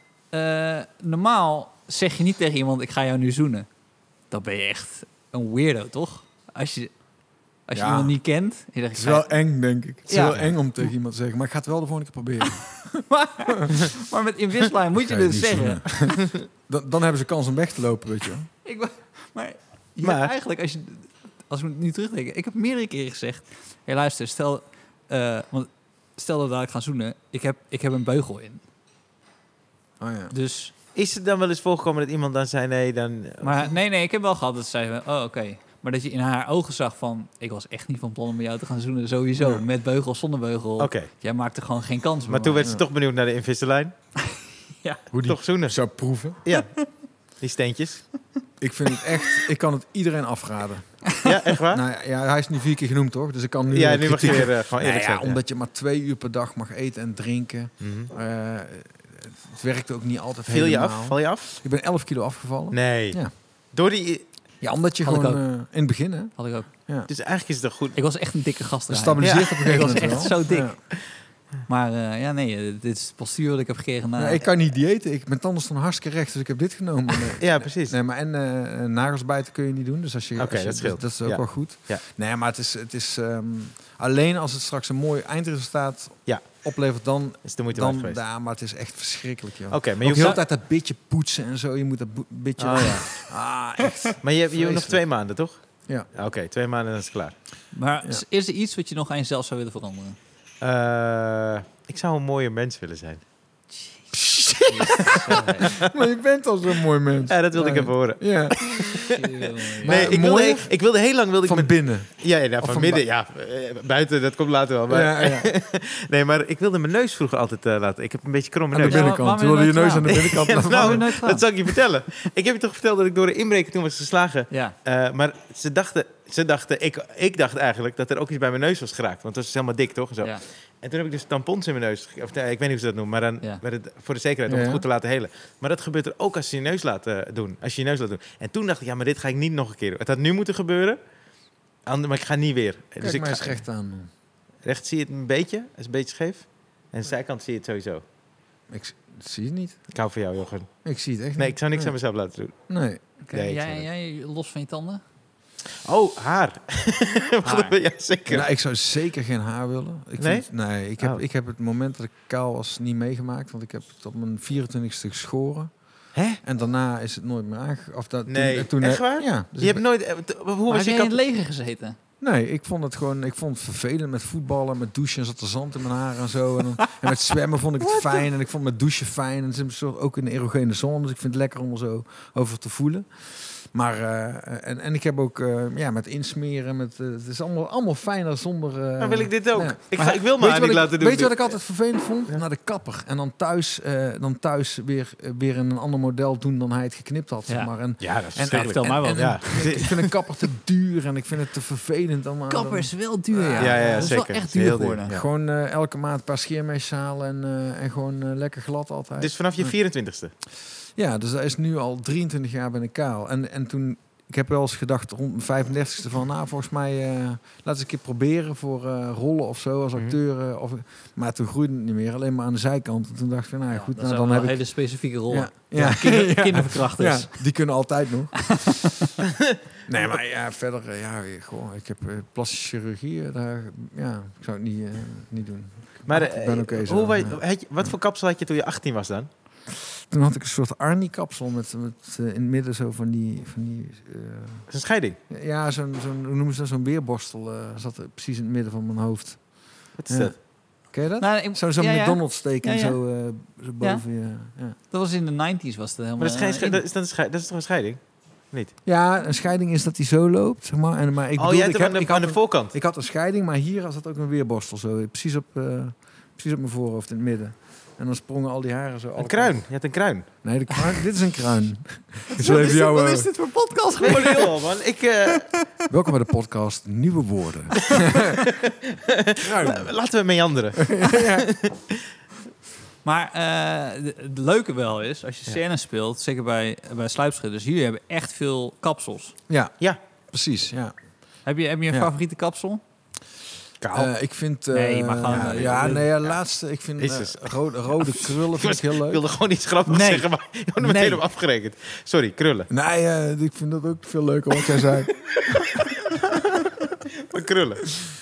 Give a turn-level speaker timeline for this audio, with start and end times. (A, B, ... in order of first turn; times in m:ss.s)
0:00.3-0:09.5 A
0:07.7-0:08.3 B
0:08.9-0:13.3 B
0:10.1-0:10.4 A
0:10.1-0:10.5 C
0:13.1-0:16.1 A
0:15.0-0:18.5 B
0:18.6-0:28.6 A
0:20.0-0:20.3 C
0:30.0-0:30.3 B
0:30.3-0:30.7 A
0:30.9-0:33.7 C
0:33.4-0:42.7 A
0:39.4-0:39.6 B
0:40.8-0:41.1 C
0:42.3-0:43.9 C
0:44.3-0:45.0 A
0:45.1-0:46.4 B
0:45.2-0:48.2 C
0:46.5-0:46.8 A
0:48.6-1:03.4 B
0:51.2-0:51.8 C
0:53.7-0:55.4 C
0:57.8-0:58.1 C
1:00.5-1:01.6 C
1:02.7-1:04.3 C
1:04.6-1:07.1 B
1:05.0-1:06.7 A
1:07.1-1:08.0 C
1:07.9-1:11.1 A
1:08.9-1:10.8 B
1:09.2-1:10.4 C
1:11.6-1:14.5 A
1:14.2-1:35.1 B
1:17.4-1:18.0 C
1:20.4-1:22.0 C
1:27.4-1:28.2 C
1:29.7-1:30.4 C
1:32.6-1:33.3 C
1:34.2-1:37.4 C
1:37.7-1:40.2 A
1:40.6-1:43.2 C
1:44.1-1:45.2 B
1:44.6-1:45.7 A
1:44.9-1:45.9 C
1:45.8-1:49.1 B
1:47.3-1:49.2 C
1:49.1-1:50.1 A
1:49.8-1:53.0 B
1:49.8-1:59.2 C
1:54.9-1:55.5 B
1:58.7-2:01.4 A
1:58.8-2:01.1 B
2:00.1-2:21.0 C
2:04.5-2:04.8 A
2:14.5-2:14.8 B
2:21.8-2:23.6 C
2:23.0-2:24.1 B
2:24.6-2:28.0 C
2:28.7-2:29.9 B
2:29.9-2:33.9 C
2:30.8-2:32.0 B
2:32.7-2:33.0 B
2:33.2-2:35.0 A
2:35.8-2:38.5 C
2:37.4-2:37.8 A
2:38.3-2:49.8 B
2:40.2-2:41.2 C
2:46.1-2:46.4 C
2:48.3-2:51.2 C
2:50.7-2:52.0 A
2:52.2-3:24.2 B
3:09.0-3:11.6 C
3:17.5-3:19.9 A
3:18.0-3:20.1 C
3:22.5-3:25.1 A
3:23.6-3:25.2 C
3:25.1-3:29.7 B
3:29.2-3:30.3 C
3:30.8-3:49.0 B
3:43.7-3:47.7 A
3:49.8-3:57.9 B
3:56.1-3:59.3 C
3:59.7-4:04.7 B
4:04.7-4:05.2 C
4:05.3-4:14.8 B
4:10.0-4:10.4 C
4:11.2-4:13.0 A
4:13.8-4:14.0 A
4:14.8-4:16.8 A
4:16.2-4:18.7 C
4:18.8-4:29.7 B
4:21.4-4:22.7 C
4:29.2-4:30.3 C
4:30.4-4:33.4 B
4:32.4-4:35.7 A
4:32.4-4:32.7 C
4:34.0-4:35.5 C
4:35.9-4:38.4 B
4:38.6-4:42.0 C
4:39.4-4:39.9 B
4:40.8-4:41.5 B
4:43.0-4:49.3 A
4:49.5-4:52.1 B
4:51.4-4:52.8 A
4:53.8-4:54.1 C
4:53.9-4:59.2 B
4:54.7-4:56.1 A
4:55.3-4:56.3 C
4:57.0-5:02.7 C
4:59.9-5:01.2 A
5:02.7-5:05.6 B
5:07.3-5:08.0 C